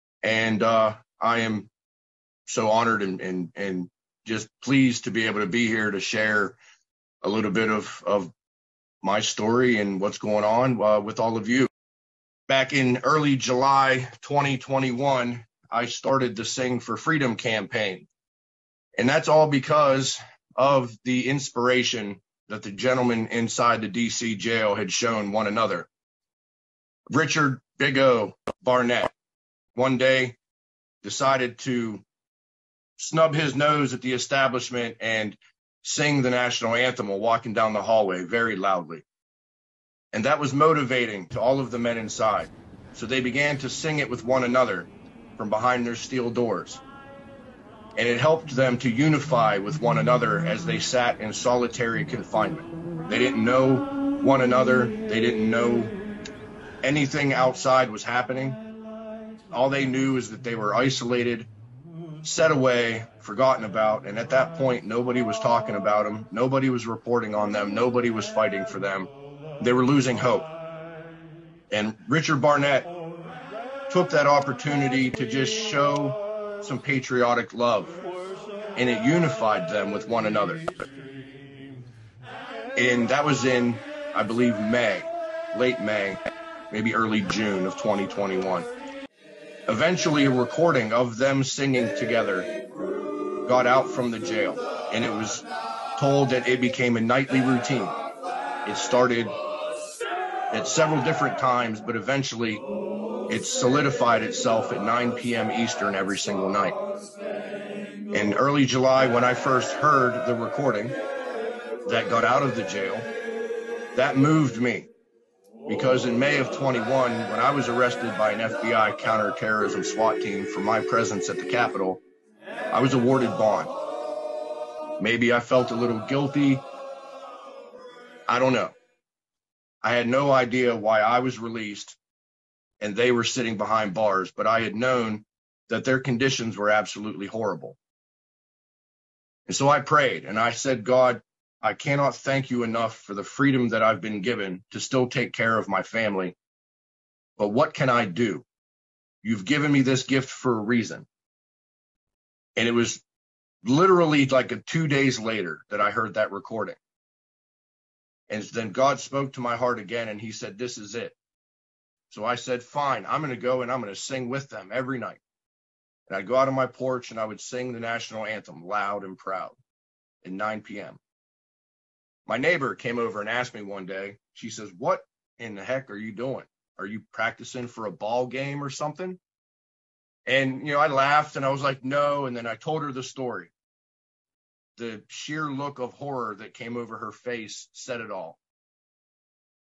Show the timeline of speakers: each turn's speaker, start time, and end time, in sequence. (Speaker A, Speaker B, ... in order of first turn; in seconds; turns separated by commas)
Speaker A: 0.2-1.7, Speaker A: 2.5-6.6, Speaker A: 7.2-8.3, Speaker A: 9.0-11.7, Speaker A: 12.5-18.1, Speaker A: 19.0-25.9, Speaker A: 27.1-29.1, Speaker A: 29.7-30.4, Speaker A: 31.0-32.0, Speaker A: 33.0-39.0, Speaker A: 40.1-46.8, Speaker A: 48.0-55.9, Speaker A: 56.8-58.6, Speaker A: 59.5-61.5, Speaker A: 62.2-70.5, Speaker A: 71.7-72.9, Speaker A: 73.9-78.0, Speaker A: 78.8-80.7, Speaker A: 82.8-88.7, Speaker A: 89.7-92.5, Speaker A: 93.5-95.5, Speaker A: 96.0-98.0, Speaker A: 98.6-99.3, Speaker A: 100.5-102.6, Speaker A: 103.3-106.8, Speaker A: 108.1-111.0, Speaker A: 111.8-113.1, Speaker A: 113.9-114.9, Speaker A: 115.7-122.0, Speaker A: 122.7-123.7, Speaker A: 125.0-126.7, Speaker A: 128.3-128.8, Speaker A: 129.8-132.0, Speaker A: 132.8-137.8, Speaker A: 139.5-146.3, Speaker A: 147.4-148.4, Speaker A: 149.2-151.1, Speaker A: 152.6-153.0, Speaker A: 153.6-156.8, Speaker A: 158.3-161.2, Speaker A: 162.1-165.2, Speaker A: 166.1-169.6, Speaker A: 170.2-171.0, Speaker A: 172.3-179.2, Speaker A: 180.3-183.5, Speaker A: 184.8-188.4